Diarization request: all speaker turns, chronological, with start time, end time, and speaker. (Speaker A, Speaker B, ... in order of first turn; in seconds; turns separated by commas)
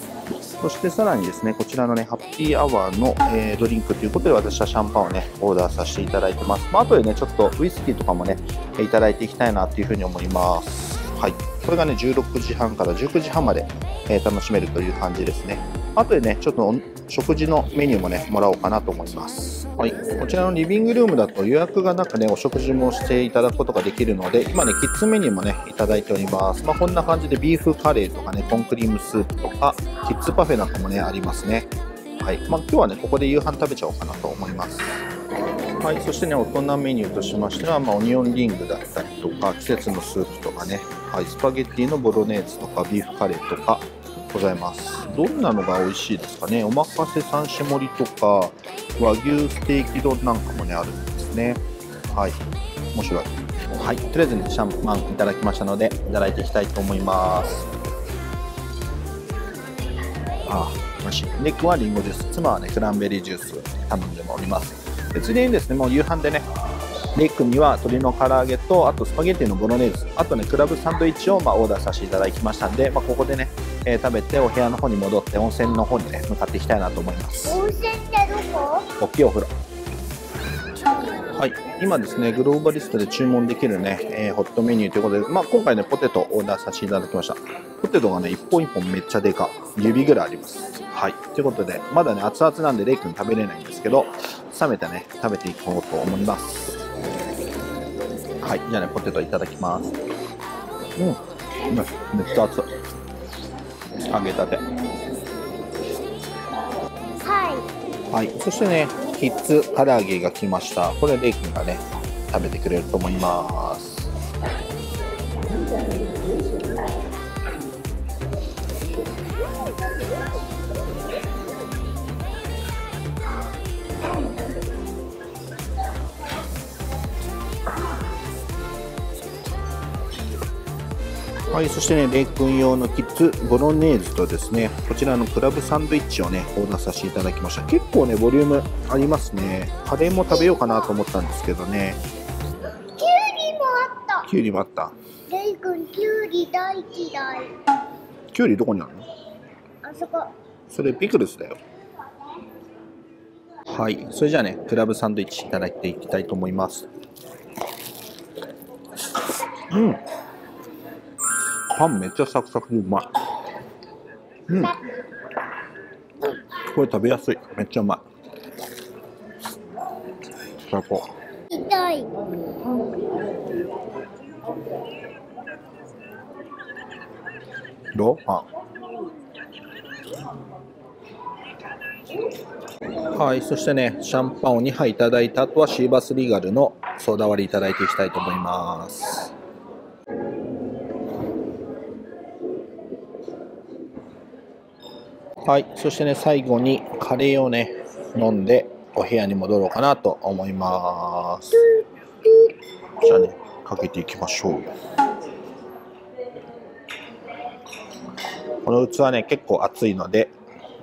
Speaker A: 0.6-31.7, Speaker A: 32.2-34.9, Speaker A: 35.8-52.4, Speaker A: 52.9-57.6, Speaker A: 60.5-66.5, Speaker A: 67.1-77.6, Speaker B: 77.5-78.9, Speaker A: 79.0-79.5, Speaker A: 81.3-96.8, Speaker A: 98.4-99.9, Speaker A: 101.0-102.7, Speaker A: 104.1-104.6, Speaker B: 107.2-107.7, Speaker A: 108.1-114.1, Speaker A: 131.5-142.0, Speaker B: 142.9-144.3, Speaker A: 144.2-144.9, Speaker B: 145.3-147.6, Speaker A: 148.3-149.0, Speaker B: 149.8-150.3, Speaker A: 150.7-151.6, Speaker A: 153.7-156.9, Speaker A: 159.7-160.0, Speaker A: 161.7-163.2, Speaker A: 164.5-164.7, Speaker A: 166.7-168.0, Speaker A: 170.7-171.1, Speaker B: 171.5-172.1, Speaker A: 177.9-178.4, Speaker A: 183.0-189.3, Speaker A: 195.4-201.6, Speaker B: 201.5-202.5, Speaker A: 203.0-204.7, Speaker A: 208.6-210.3